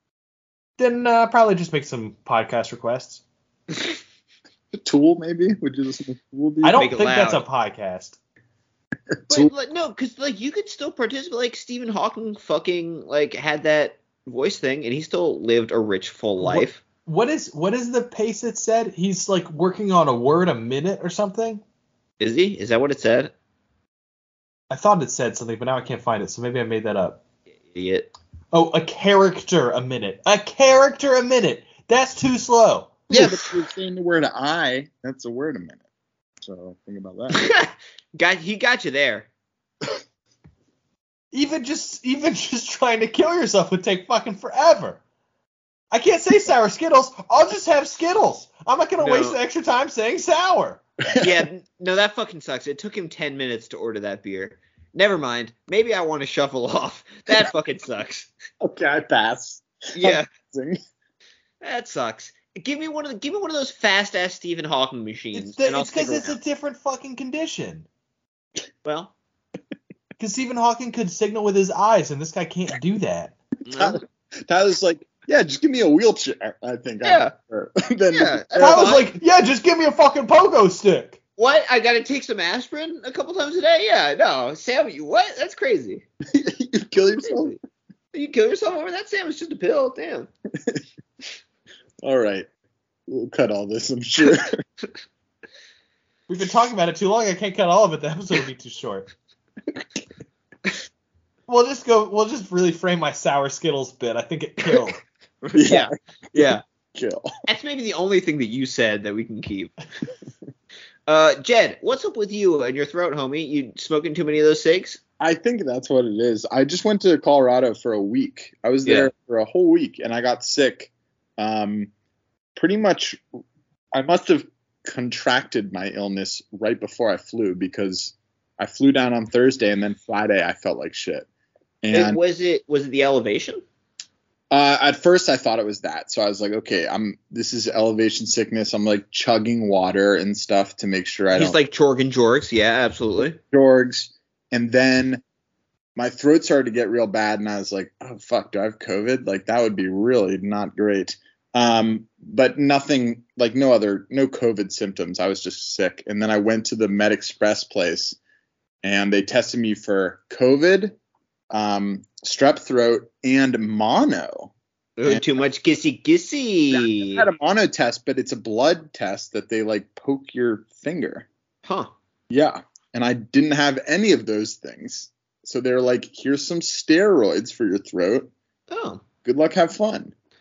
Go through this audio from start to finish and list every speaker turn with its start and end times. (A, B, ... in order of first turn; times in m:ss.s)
0:00.8-0:03.2 A
0:04.7-0:06.9 B
0:06.6-0:08.2 A
0:06.7-0:07.4 C
0:09.1-0:09.5 B
0:09.3-0:16.8 C
0:16.4-0:21.6 A
0:22.2-0:23.3 C
0:24.7-0:27.2 A
0:27.7-0:28.1 C
0:28.5-0:33.0 A
0:33.1-0:35.8 B
0:33.1-0:33.5 C
0:36.4-0:37.4 B
0:37.3-0:39.3 C
0:41.3-0:45.0 A
0:45.9-0:50.8 A
0:49.0-0:49.4 C
0:51.1-0:51.4 B
0:51.2-0:58.3 C
0:58.6-1:00.8 B
1:00.0-1:00.3 C
1:01.6-1:06.4 C
1:05.3-1:07.9 A
1:08.8-1:09.1 C
1:10.2-1:13.4 A
1:13.7-1:14.0 C
1:13.8-1:19.0 B
1:17.0-1:17.3 C
1:18.1-1:19.1 C
1:18.6-1:21.2 A
1:21.4-1:26.0 C
1:26.3-1:27.6 B
1:27.2-1:27.6 C
1:28.1-1:30.3 C
1:32.0-1:32.5 B
1:33.1-1:34.6 B
1:36.3-1:39.1 A
1:41.5-1:45.0 A
1:45.4-1:46.6 C
1:45.5-1:47.3 B
1:47.5-1:49.8 C
1:51.1-1:55.0 C
1:55.2-2:01.9 B
1:58.8-1:59.1 C
2:02.6-2:03.2 B
2:03.9-2:11.3 B
2:11.8-2:12.2 B
2:11.9-2:13.6 C
2:14.5-2:21.6 B
2:21.3-2:23.4 C
2:23.5-2:25.2 B
2:26.0-2:38.2 B
2:38.8-2:41.0 B
2:41.5-2:44.5 B
2:45.0-2:47.3 C
2:46.7-2:51.3 B
2:51.6-2:51.9 C
2:52.3-2:58.3 B
2:58.7-2:59.0 C
2:59.2-3:00.1 B